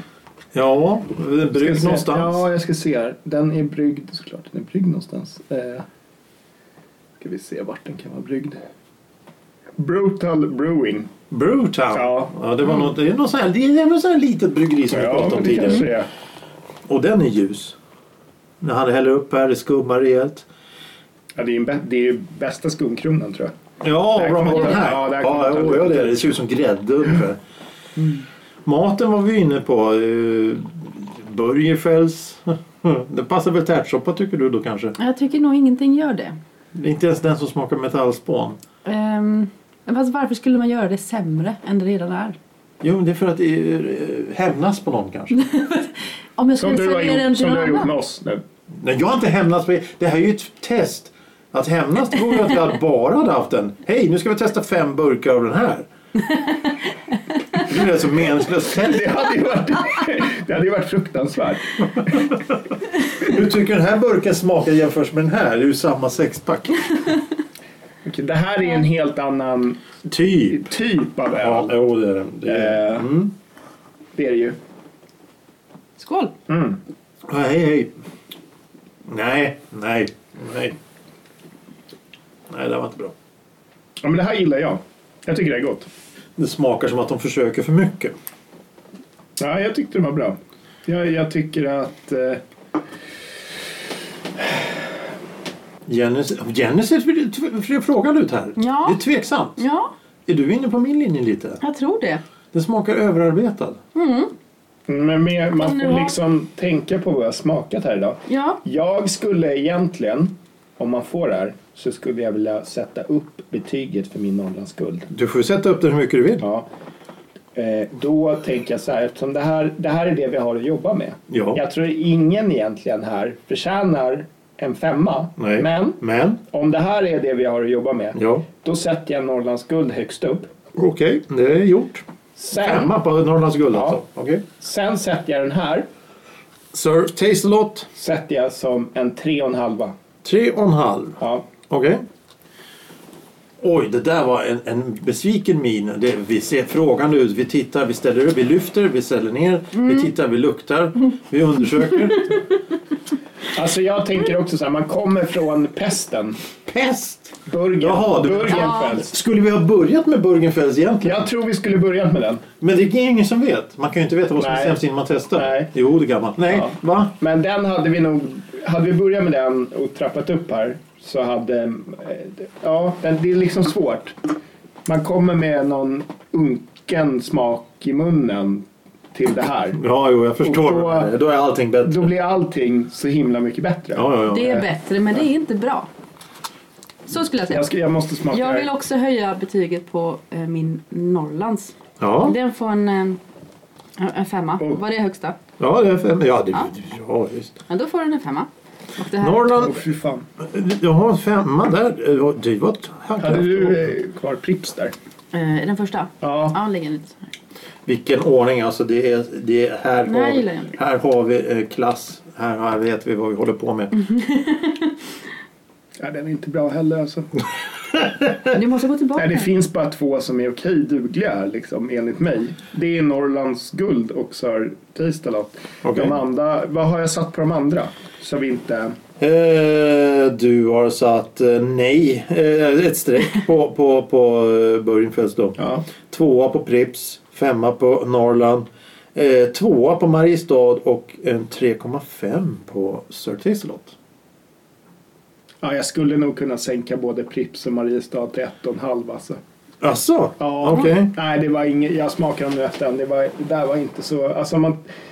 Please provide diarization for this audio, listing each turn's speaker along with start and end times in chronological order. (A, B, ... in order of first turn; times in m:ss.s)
0:00.5-0:02.4 A
0:01.6-0:05.9 B
0:07.2-0:08.6 B
0:09.8-0:11.1 B
0:11.3-0:15.9 A
0:11.9-0:12.3 B
0:14.9-0:16.1 B
0:16.9-0:17.8 A
0:18.6-0:20.5 A
0:21.4-0:23.5 B
0:23.8-0:27.4 A
0:24.2-0:26.4 B
0:28.6-0:35.0 A
0:35.0-0:36.4 C
0:36.7-0:38.6 A
0:38.8-0:42.4 C
0:42.8-0:45.4 A
0:45.3-0:47.9 C
0:46.6-0:48.4 B
0:48.7-0:55.9 A
0:57.6-0:59.2 A
0:58.8-1:02.3 B
1:03.2-1:06.8 A
1:08.0-1:09.8 B
1:10.0-1:10.7 A
1:10.5-1:11.7 B
1:11.3-1:13.3 A
1:12.4-1:13.2 B
1:14.2-1:14.6 B
1:16.0-1:16.3 C
1:16.5-1:16.8 B
1:17.3-1:17.9 A
1:19.1-1:20.8 A
1:22.5-1:23.1 A
1:24.0-1:25.9 B
1:26.4-1:28.1 A
1:29.4-1:32.4 B
1:35.9-1:39.6 A
1:38.6-1:39.0 C
1:39.6-1:39.9 C
1:40.3-1:41.6 A
1:41.6-1:42.2 C
1:42.5-1:43.8 A
1:44.0-1:44.3 C
1:44.9-1:55.1 B
1:45.6-1:46.1 C
1:48.3-1:48.6 C
1:55.1-1:56.4 A
1:56.4-1:56.7 B
1:57.6-2:10.5 B
2:01.3-2:01.6 A
2:05.4-2:06.4 A
2:08.2-2:08.4 A
2:10.8-2:14.4 A
2:12.4-2:12.9 B
2:13.7-2:14.0 B
2:14.6-2:15.9 B
2:16.7-2:17.9 A
2:17.9-2:20.0 B
2:20.2-2:22.0 A
2:21.2-2:21.5 B
2:23.6-2:32.4 A
2:33.5-2:36.4 B
2:36.7-2:41.3 A
2:37.5-2:39.1 B
2:38.4-2:38.9 C
2:41.0-2:42.4 B
2:42.6-2:47.2 A
2:44.4-2:44.8 B
2:45.3-2:45.7 B
2:46.5-2:54.3 B
2:54.9-2:59.8 B
2:59.8-3:02.1 A
3:00.4-3:01.1 B
3:01.8-3:04.6 B
3:04.0-3:04.6 A
3:04.3-3:05.9 C
3:07.1-3:07.7 C
3:07.4-3:08.7 B
3:08.3-3:13.2 C
3:12.0-3:12.4 A
3:14.0-3:15.4 C
3:15.6-3:17.6 A
3:17.7-3:19.5 C
3:19.2-3:19.8 A
3:19.6-3:20.2 B
3:20.4-3:23.9 A
3:23.2-3:24.9 B
3:25.3-3:27.3 C
3:26.2-3:26.6 B
3:27.9-3:33.9 A
3:30.1-3:30.8 C
3:34.0-3:34.9 C
3:36.0-3:37.3 B
3:38.0-3:38.3 A
3:38.5-3:39.5 C
3:39.2-3:49.0 B
3:45.8-3:46.2 A
3:49.2-4:04.0 A
3:55.6-3:55.8 B
4:05.6-4:09.4 B
4:09.8-4:11.1 A
4:10.4-4:14.8 B